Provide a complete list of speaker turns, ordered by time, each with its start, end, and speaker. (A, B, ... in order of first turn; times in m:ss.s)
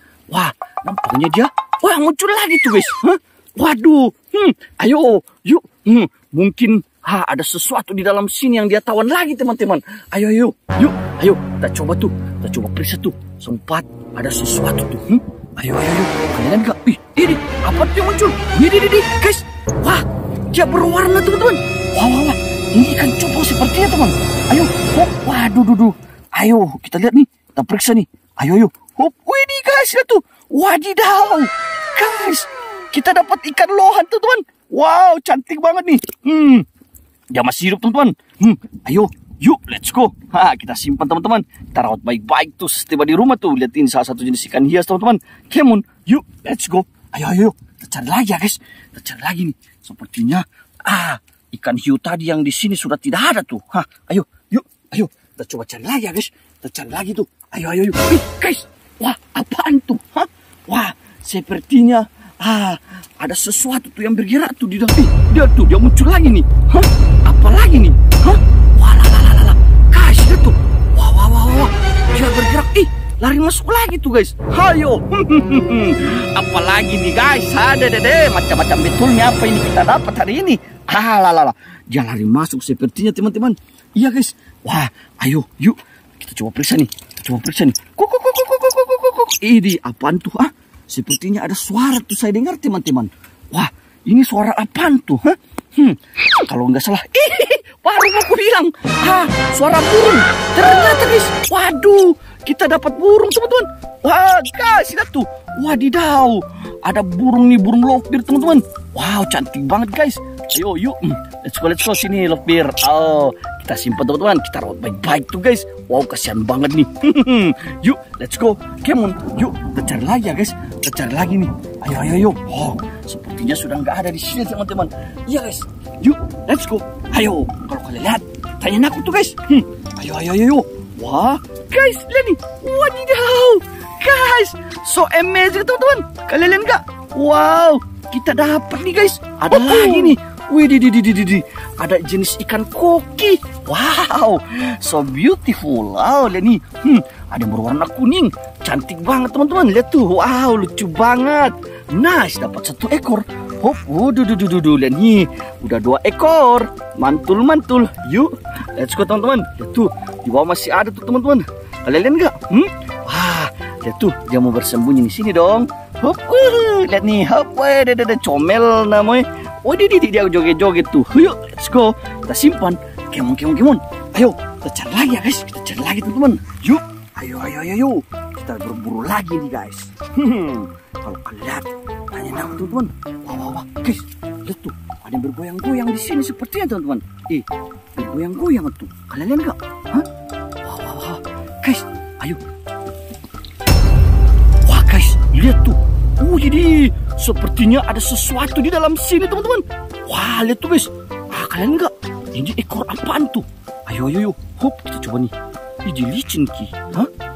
0:00.3-0:36.7 A
0:37.3-3:10.1 A
3:10.6-3:12.4 A
3:14.6-3:27.1 A